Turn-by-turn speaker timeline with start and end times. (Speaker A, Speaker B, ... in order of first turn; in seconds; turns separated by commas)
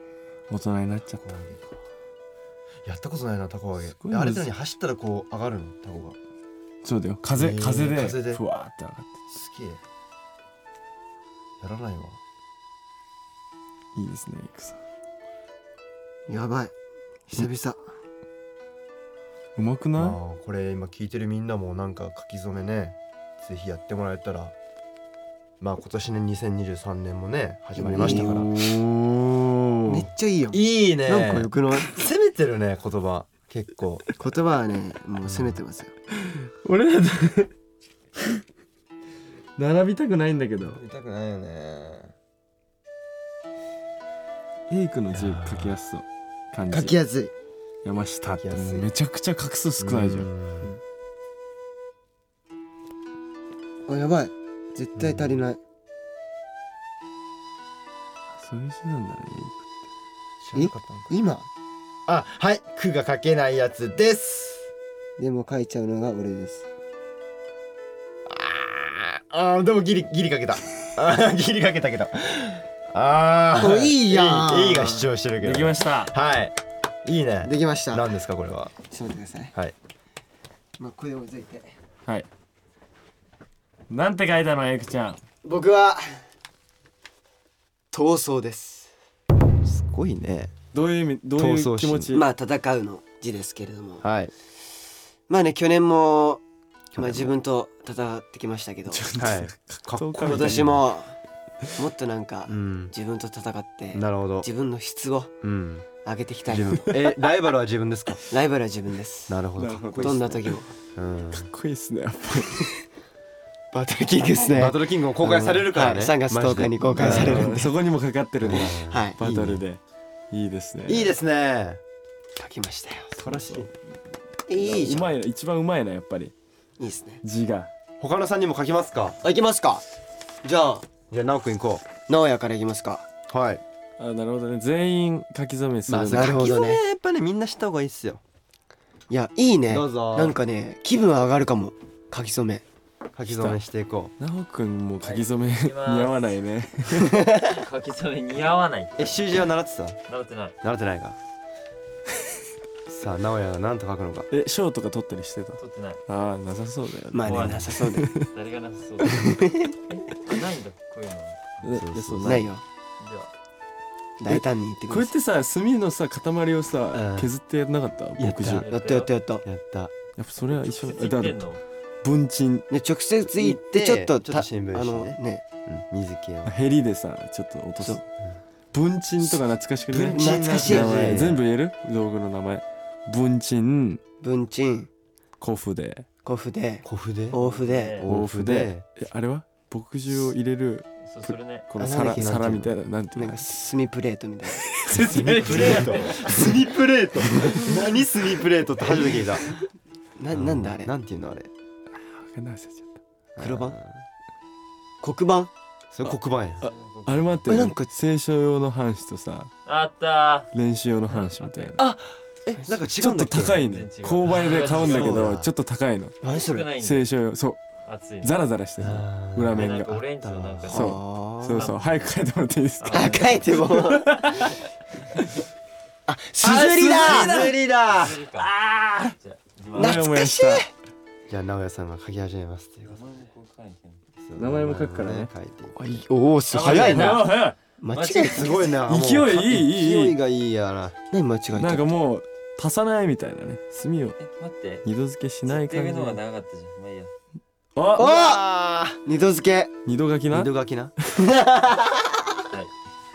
Speaker A: 0.5-1.3, Speaker B: 1.2-1.8, Speaker B: 2.9-6.2, Speaker A: 3.9-4.5, Speaker A: 6.8-9.2, Speaker B: 7.3-8.4, Speaker B: 9.3-9.8, Speaker B: 11.6-12.2, Speaker A: 13.9-14.8, Speaker C: 16.3-16.7, Speaker C: 17.3-17.8, Speaker A: 19.6-20.2, Speaker B: 20.0-24.6, Speaker B: 25.6-28.5, Speaker C: 27.8-28.4, Speaker A: 27.9-30.1, Speaker C: 29.9-31.9, Speaker B: 30.5-34.1, Speaker C: 34.2-35.9, Speaker B: 35.2-35.6, Speaker A: 36.3-37.5, Speaker A: 39.6-40.8, Speaker B: 40.7-42.1, Speaker A: 44.7-47.0, Speaker B: 45.1-45.8, Speaker C: 46.7-47.3, Speaker A: 47.8-50.3, Speaker B: 48.4-48.9, Speaker B: 49.8-50.7, Speaker C: 53.9-55.6, Speaker B: 55.0-55.4, Speaker A: 58.4-59.7, Speaker B: 60.4-61.1, Speaker C: 60.5-61.5, Speaker B: 62.1-64.7, Speaker C: 65.2-66.7, Speaker B: 68.3-78.7, Speaker C: 73.6-75.1, Speaker A: 75.4-76.1, Speaker C: 77.4-78.1, Speaker C: 78.9-79.5, Speaker C: 80.8-81.8, Speaker A: 83.9-85.2, Speaker C: 85.4-86.2, Speaker C: 87.9-88.9, Speaker B: 89.6-90.5, Speaker A: 90.7-92.3, Speaker B: 91.4-92.2, Speaker C: 92.1-94.0, Speaker B: 94.0-94.3, Speaker C: 95.3-96.4, Speaker B: 97.0-97.3, Speaker C: 97.0-99.1, Speaker A: 98.9-100.8, Speaker B: 99.2-100.8, Speaker C: 100.2-101.2, Speaker C: 101.8-105.3, Speaker B: 102.5-102.9, Speaker B: 103.9-104.5, Speaker B: 105.4-105.9, Speaker C: 106.0-107.0, Speaker B: 106.5-108.2, Speaker C: 108.3-109.4, Speaker B: 109.3-111.5, Speaker A: 109.6-110.5, Speaker C: 110.0-110.7, Speaker A: 111.3-112.8, Speaker C: 113.7-117.7, Speaker B: 114.5-117.6, Speaker A: 117.0-119.8, Speaker B: 118.4-119.6, Speaker C: 118.5-119.2, Speaker A: 120.3-121.1, Speaker B: 120.9-121.8, Speaker C: 122.4-123.2, Speaker B: 123.2-123.7, Speaker A: 123.2-123.7, Speaker C: 124.5-125.1, Speaker A: 124.6-126.3, Speaker C: 126.8-127.2, Speaker A: 127.2-127.7, Speaker B: 128.0-129.2, Speaker C: 129.2-129.8, Speaker C: 130.4-130.8, Speaker B: 131.1-131.9, Speaker C: 132.1-133.1, Speaker B: 133.3-133.6, Speaker A: 134.0-136.5, Speaker B: 135.9-138.2, Speaker C: 135.9-136.8, Speaker C: 139.1-142.6, Speaker B: 139.7-140.4, Speaker B: 143.2-144.1, Speaker A: 143.3-143.6, Speaker A: 144.2-147.3, Speaker D: 145.1-146.3, Speaker D: 147.4-149.1, Speaker B: 149.0-150.0, Speaker D: 150.1-150.6, Speaker B: 150.6-151.2, Speaker B: 152.9-154.3, Speaker A: 154.3-158.3, Speaker D: 155.6-156.0, Speaker C: 157.1-158.1, Speaker D: 157.2-161.6, Speaker C: 159.1-159.7, Speaker A: 161.6-162.5, Speaker B: 161.7-162.5, Speaker C: 162.2-162.6, Speaker D: 163.0-163.3, Speaker C: 164.2-165.1, Speaker A: 164.3-168.7, Speaker B: 166.9-167.3, Speaker B: 168.2-168.7, Speaker D: 168.5-169.1, Speaker C: 168.5-169.5, Speaker B: 169.4-169.9, Speaker A: 170.2-171.4, Speaker D: 170.6-171.6, Speaker A: 172.0-172.7, Speaker C: 172.7-175.4, Speaker B: 173.3-176.6, Speaker A: 176.4-178.1, Speaker A: 178.7-184.0, Speaker B: 179.9-181.4, Speaker C: 180.1-181.2, Speaker C: 184.2-184.9, Speaker A: 185.4-186.1, Speaker C: 186.2-188.1, Speaker B: 186.8-187.4, Speaker D: 187.3-188.1, Speaker B: 188.0-188.8, Speaker A: 188.1-193.5, Speaker D: 191.1-191.7, Speaker C: 191.8-194.7, Speaker B: 192.1-192.7, Speaker A: 194.6-196.6, Speaker B: 195.1-199.5, Speaker D: 195.5-196.2, Speaker C: 200.2-200.9, Speaker B: 200.3-201.5, Speaker A: 202.0-203.0, Speaker B: 203.4-204.0, Speaker C: 203.4-203.8, Speaker C: 205.0-205.5, Speaker B: 205.9-206.7, Speaker A: 206.1-209.5, Speaker D: 206.6-207.4, Speaker C: 207.5-207.9, Speaker D: 209.7-210.5, Speaker A: 210.5-211.8, Speaker D: 211.1-211.8, Speaker B: 211.8-213.7, Speaker A: 213.0-216.2, Speaker D: 213.6-215.4, Speaker B: 214.3-215.5, Speaker C: 216.2-216.7, Speaker D: 216.3-217.1, Speaker A: 216.8-217.6, Speaker D: 217.8-218.3, Speaker A: 218.2-220.0, Speaker B: 218.8-220.7, Speaker D: 219.5-222.0, Speaker A: 220.7-224.6, Speaker C: 220.7-221.7, Speaker D: 222.8-223.7, Speaker C: 222.9-224.1, Speaker C: 226.1-227.5, Speaker B: 226.4-228.2, Speaker A: 226.9-227.5, Speaker D: 227.3-228.5, Speaker A: 228.4-229.2, Speaker D: 229.2-230.1, Speaker A: 229.8-230.7, Speaker C: 229.8-230.7, Speaker B: 231.3-233.0, Speaker D: 232.8-234.0, Speaker B: 234.2-236.0, Speaker A: 234.4-235.3, Speaker C: 235.8-237.3, Speaker D: 236.5-237.4, Speaker A: 236.6-237.6, Speaker C: 237.8-238.7, Speaker D: 237.9-238.8, Speaker B: 238.2-241.0, Speaker A: 238.9-240.2, Speaker C: 241.1-241.9, Speaker A: 241.6-244.2, Speaker D: 244.2-244.9, Speaker A: 244.8-246.2, Speaker D: 245.5-247.1, Speaker A: 247.8-248.1, Speaker C: 248.0-248.5, Speaker B: 248.0-249.0, Speaker C: 249.0-249.7, Speaker A: 249.9-250.5, Speaker B: 250.3-250.9, Speaker C: 251.2-252.2